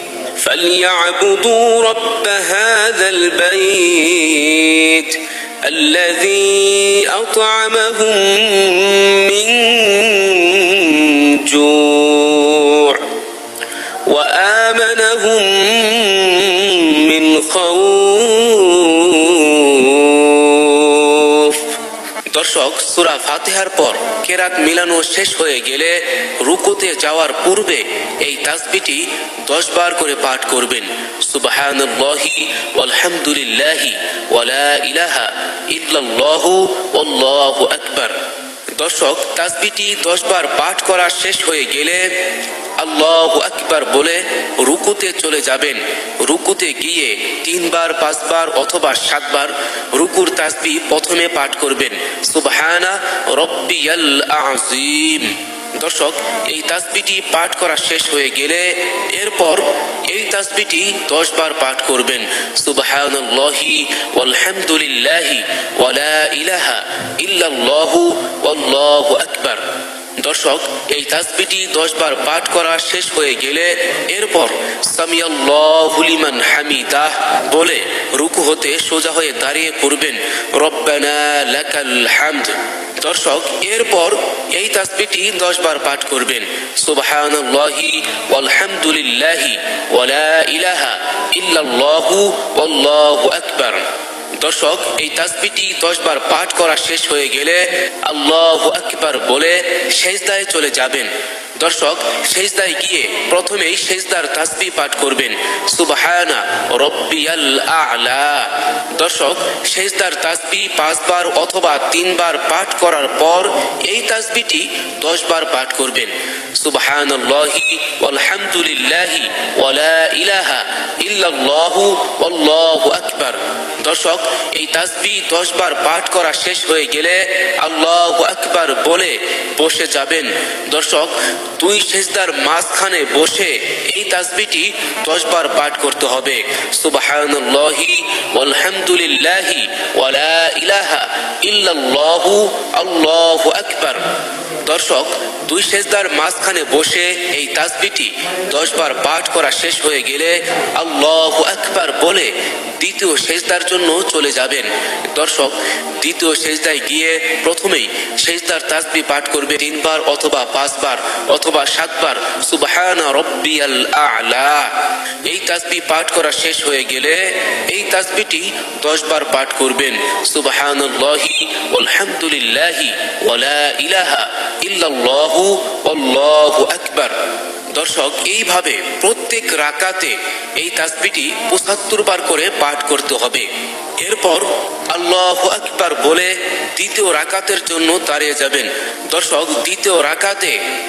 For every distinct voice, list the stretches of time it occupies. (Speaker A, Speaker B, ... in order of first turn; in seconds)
Speaker A: 0.4-13.1, 14.1-21.6, 22.3-38.1, 38.8-42.1, 42.8-69.6, 70.2-93.9, 94.4-144.1, 144.6-177.2, 177.7-190.6